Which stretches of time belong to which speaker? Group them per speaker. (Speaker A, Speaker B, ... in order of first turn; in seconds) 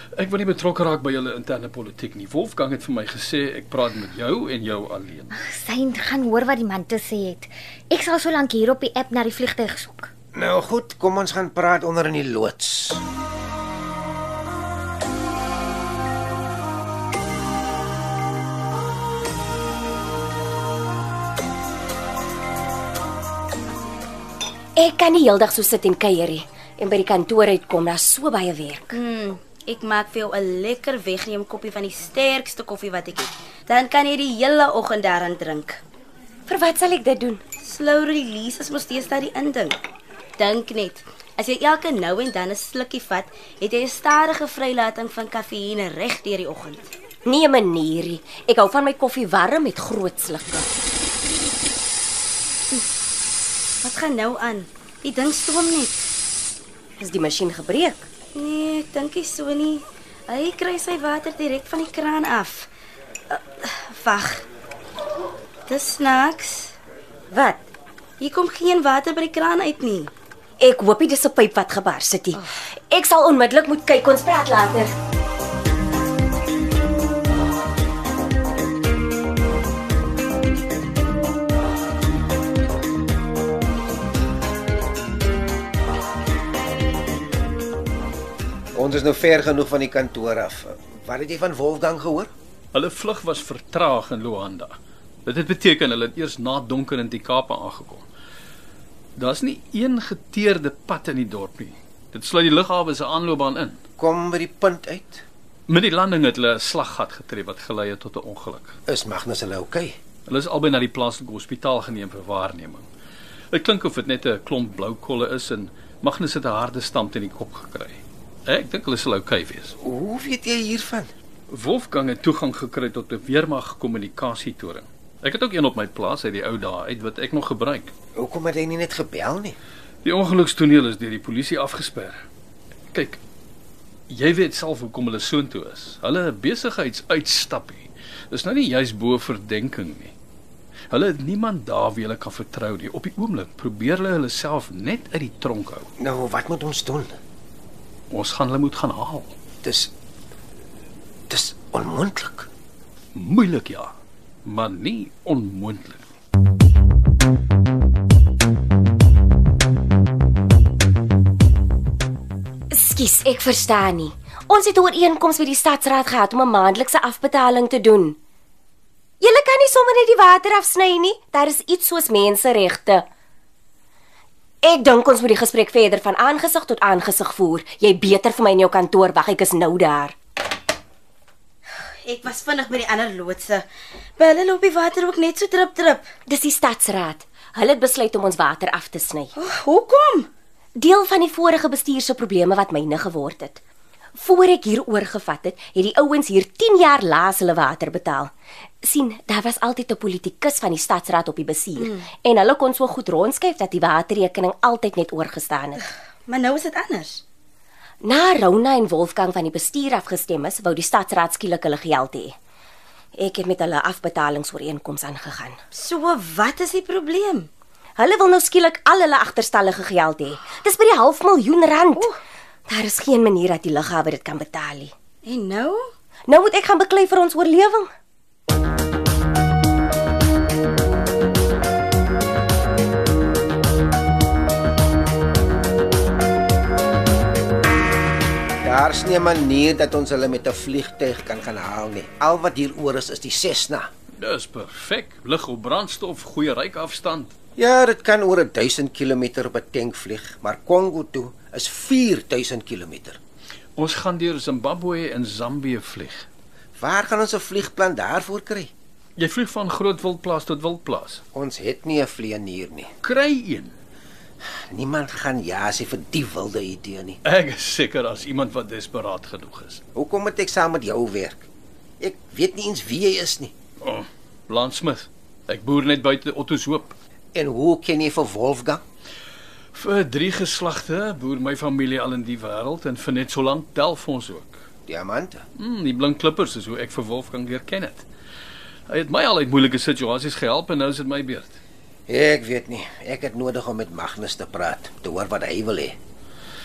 Speaker A: 0.2-5.3, 92.7-94.8, 95.3-98.0, 99.2-103.8, 105.7-108.8, 110.3-112.9, 113.5-119.7, 121.5-127.9, 130.0-132.2, 132.9-133.2, 134.1-140.1, 140.9-145.9, 148.1-149.3, 153.2-153.9, 154.4-156.1, 244.2-247.3, 253.8-256.3, 259.2-261.2, 263.0-263.8, 267.2-269.8, 273.8-277.0, 279.7-284.6, 285.6-288.1, 288.9-291.6
Speaker B: 5.3-10.1
Speaker C: 10.3-13.0, 88.8-92.3, 104.0-105.2, 108.9-110.0, 119.8-121.1, 128.2-129.6, 146.0-147.2, 149.6-149.9, 151.3-152.5, 238.6-243.9, 247.6-253.2, 256.8-258.7, 261.3-262.9, 264.7-267.2, 269.9-271.5, 272.0-273.5, 277.3-278.8, 284.9-285.4, 292.1-296.0
Speaker D: 24.8-28.9, 36.5-37.4, 47.2-50.7, 57.0-58.1, 67.3-67.6, 70.6-74.9, 162.7-168.2, 169.2-173.1, 174.6-180.2, 186.3-189.3, 190.8-193.6, 194.2-205.8, 208.0-212.4, 213.2-215.6, 218.0-222.1, 222.7-224.9, 226.3-227.9
Speaker E: 28.9-35.8, 37.6-39.8, 40.4-46.9, 53.8-56.0, 58.3-62.7, 63.3-64.4, 65.7-66.8, 68.2-70.1, 181.8-183.7, 184.2-186.2, 189.3-190.3, 201.8-202.1, 205.8-207.2, 215.7-217.5, 225.2-225.8